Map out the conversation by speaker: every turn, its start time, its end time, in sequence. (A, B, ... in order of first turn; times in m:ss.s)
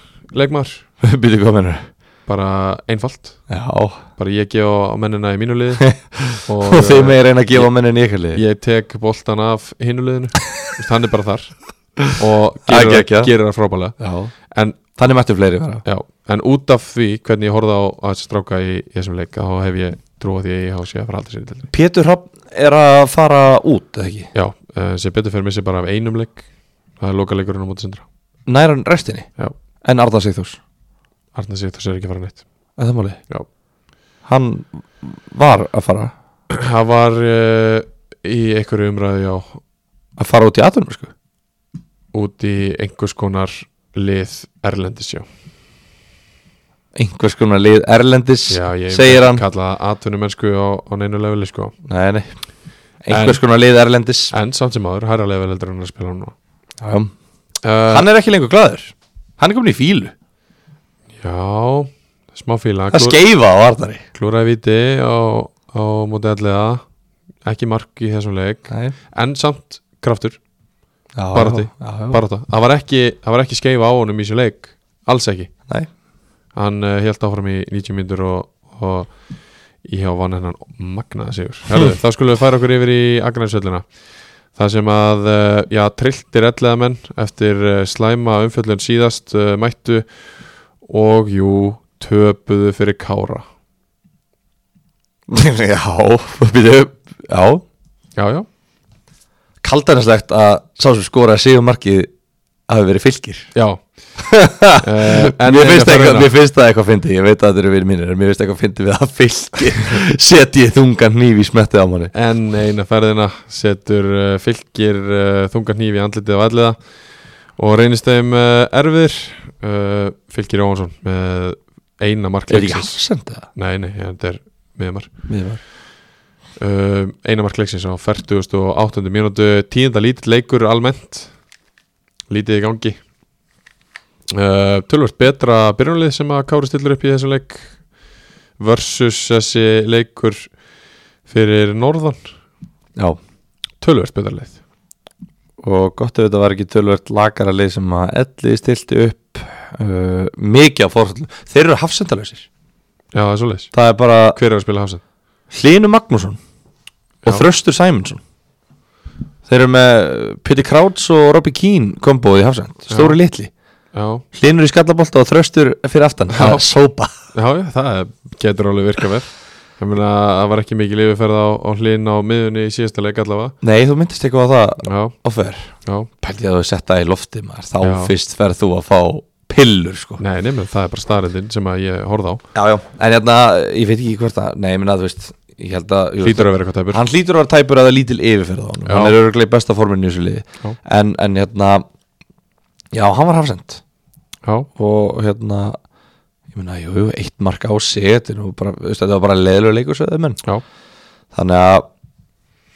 0:00.3-0:00.8 A
0:01.0-0:01.9 B
0:02.3-0:03.4 A
0:03.5-0:04.0 B
0:04.2-0:07.7 A
0:05.8-0:08.4 B
0:08.3-0:14.0 A
0:12.7-0:13.3 B
0:14.0-0:14.3 B
0:14.5-0:14.8 A
0:15.0-0:15.8 B
0:15.8-0:21.7 A
0:21.7-0:24.3 B
0:24.3-0:26.5 A
0:27.0-0:28.0 A
0:28.5-0:29.3 B
0:29.8-0:30.6 B
0:31.4-0:32.4 A
0:32.8-0:33.2 B
0:34.2-0:36.1 B
0:36.6-0:39.6 A
0:40.2-0:41.1 B
0:42.1-0:45.3 A
0:47.0-0:49.4 B
0:48.5-0:51.7 A
0:51.9-0:52.3 B
0:53.0-0:54.3 B
0:53.1-0:53.4 A
0:54.3-0:56.3 A
0:56.8-0:57.1 B
0:57.6-0:58.1 A
0:57.9-1:00.1 B
1:01.2-1:03.2 A
1:02.9-1:04.0 B
1:04.2-1:06.8 A
1:07.4-1:10.4 A
1:08.7-1:08.9 B
1:11.2-1:12.2 B
1:11.3-1:15.5 A
1:16.5-1:19.2 A
1:19.8-1:23.9 A
1:24.5-1:30.1 A
1:30.8-1:33.5 A
1:35.3-1:37.6 B
1:38.2-1:38.5 A
1:39.6-1:42.1 B
1:42.7-1:43.5 B
1:43.6-1:43.8 A
1:44.2-1:52.1 B
1:44.8-1:46.3 A
1:52.1-1:56.8 A
1:57.6-2:03.0 A
2:02.5-2:03.5 B
2:03.6-2:05.1 A
2:05.3-2:05.6 B
2:06.6-2:11.3 A
2:12.3-2:13.0 A
2:14.3-2:17.8 A
2:18.6-2:20.5 A
2:21.3-2:22.3 A
2:23.8-2:24.6 A
2:25.6-2:32.5 B
2:33.1-2:33.7 A
2:33.7-2:34.4 B
2:34.3-2:35.0 A
2:35.5-2:36.4 B
2:37.2-2:38.2 B
2:39.5-2:43.5 B
2:42.9-2:43.2 A
2:43.9-2:44.2 A
2:44.3-2:47.1 B
2:46.3-2:46.6 A
2:47.3-2:53.6 A
2:53.6-3:00.2 B
2:54.8-2:55.2 A
2:57.8-2:58.1 A
3:00.2-3:02.4 A
3:02.6-3:11.8 B
3:06.2-3:07.0 A
3:08.9-3:09.2 A
3:12.9-3:13.8 B
3:14.8-3:15.8 B
3:16.5-3:20.4 B
3:21.3-3:21.9 B